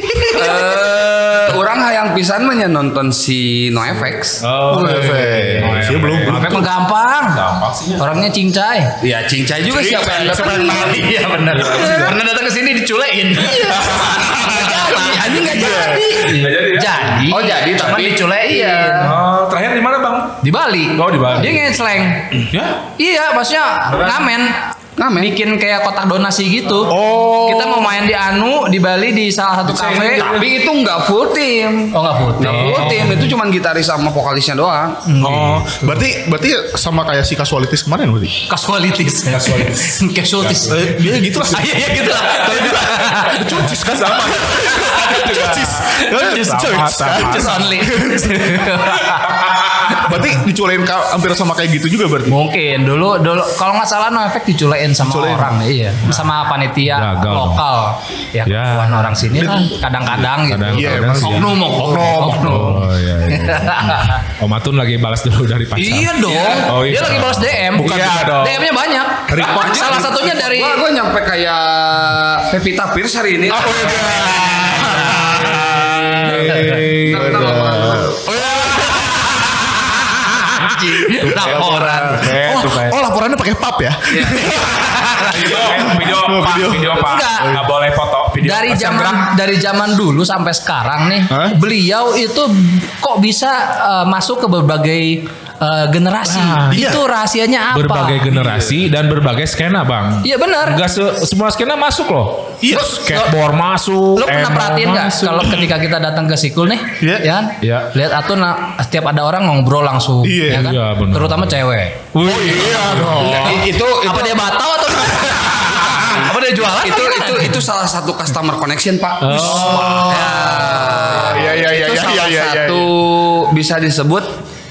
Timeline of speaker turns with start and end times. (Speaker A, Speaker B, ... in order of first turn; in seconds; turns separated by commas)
Speaker A: 0.3-4.4, Speaker B: 4.4-6.7, Speaker C: 4.7-6.7, Speaker D: 6.2-7.4, Speaker B: 7.3-8.0, Speaker D: 8.0-8.9, Speaker A: 9.0-11.1, Speaker C: 9.7-11.8, Speaker D: 10.4-19.1, Speaker B: 11.5-12.2, Speaker A: 13.9-16.0, Speaker C: 15.2-16.3, Speaker B: 16.2-17.2, Speaker A: 17.3-19.1, Speaker B: 19.0-20.4, Speaker D: 20.4-22.4, Speaker B: 20.9-21.7, Speaker B: 22.5-22.8, Speaker D: 22.9-30.4, Speaker A: 25.0-25.3, Speaker C: 26.9-27.9, Speaker B: 29.7-30.4, Speaker A: 30.1-35.0, Speaker D: 31.9-33.1, Speaker B: 32.4-33.3, Speaker D: 35.0-36.0, Speaker B: 35.2-35.7, Speaker C: 35.2-38.4, Speaker D: 38.5-43.7, Speaker B: 39.3-40.9, Speaker C: 40.6-48.6, Speaker B: 42.0-47.8, Speaker D: 44.8-45.3, Speaker D: 46.1-49.3, Speaker B: 48.7-50.2, Speaker C: 49.9-52.3, Speaker D: 52.3-64.2, Speaker C: 55.0-55.6, Speaker B: 56.8-57.6, Speaker B: 58.5-59.6, Speaker B: 60.1-61.6, Speaker C: 60.7-62.8, Speaker B: 62.1-68.6, Speaker D: 65.8-70.8, Speaker A: 66.2-66.7, Speaker A: 69.3-74.7, Speaker C: 73.5-87.6, Speaker B: 76.2-77.5, Speaker A: 76.2-78.7, Speaker D: 80.6-82.3, Speaker B: 81.3-83.0, Speaker A: 84.1-84.7, Speaker D: 84.6-85.9, Speaker B: 85.3-89.2, Speaker D: 87.0-87.6, Speaker D: 88.4-98.3, Speaker C: 91.3-91.5, Speaker B: 96.3-96.8, Speaker C: 96.7-97.0, Speaker B: 97.7-105.7, Speaker D: 100.2-100.8, Speaker C: 102.6-103.0, Speaker D: 102.7-103.3, Speaker D: 104.2-112.1, Speaker B: 107.6-107.9, Speaker C: 110.2-110.7, Speaker B: 110.5-111.5, Speaker B: 112.1-113.4, Speaker C: 112.2-113.6, Speaker D: 113.0-117.6, Speaker A: 113.3-114.5, Speaker A: 115.6-124.4, Speaker B: 119.2-119.8, Speaker D: 119.3-120.6, Speaker C: 119.3-122.9